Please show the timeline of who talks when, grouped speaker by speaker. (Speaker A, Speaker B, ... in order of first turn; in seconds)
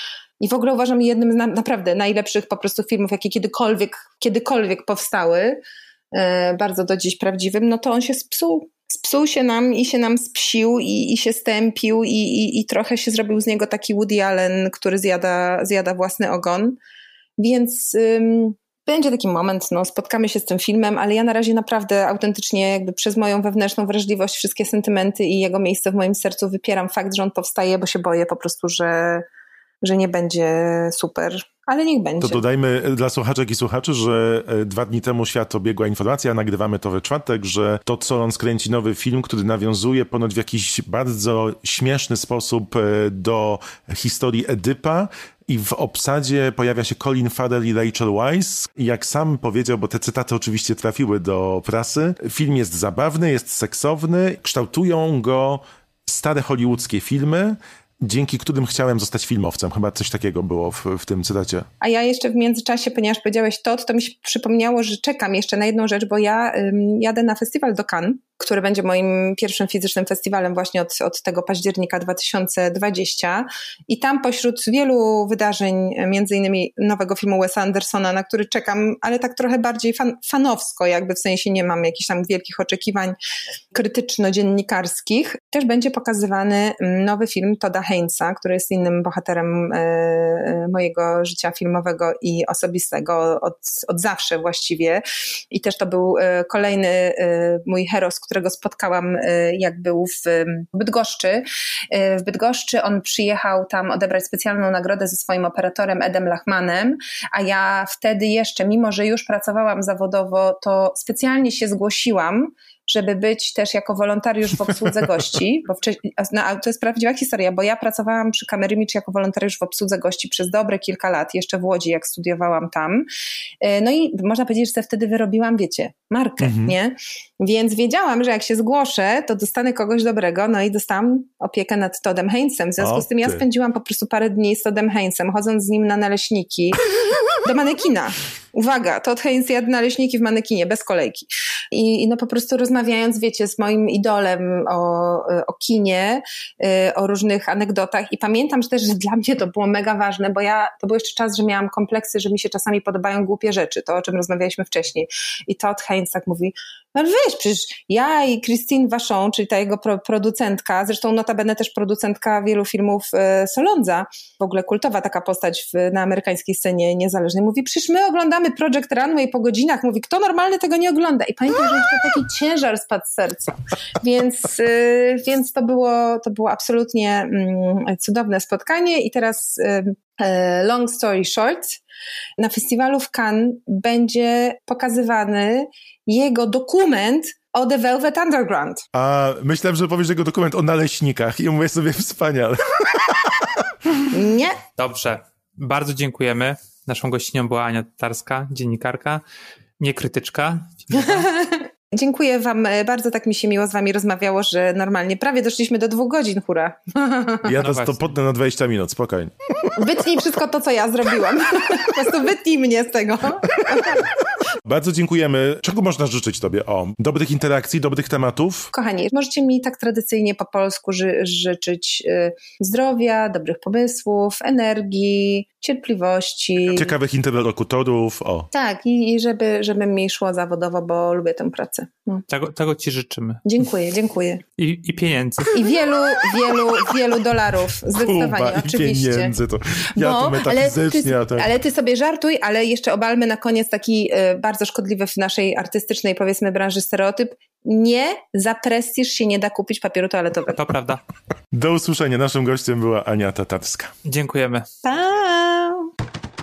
Speaker A: 0.4-5.6, 6.1-16.8, 17.4-29.2, 29.8-32.4, 61.8-83.2, 83.7-123.1, 123.6-136.8, 137.4-181.8, 182.4-188.8, 194.1-194.6, 201.0-207.5, 209.8-214.1, 218.7-226.9, 228.5-232.2, 233.4-234.4, 235.5-239.3, 239.9-250.6, 254.8-255.9
Speaker B: 32.2-61.7, 126.4-126.8, 132.8-133.4, 188.9-193.7, 207.4-209.9, 214.7-218.7, 226.7-228.5, 237.9-241.5, 251.5-253.9
Speaker C: 194.8-199.2, 199.8-201.3, 207.6-208.0, 232.3-233.4, 234.6-235.6, 250.5-251.0, 254.1-254.7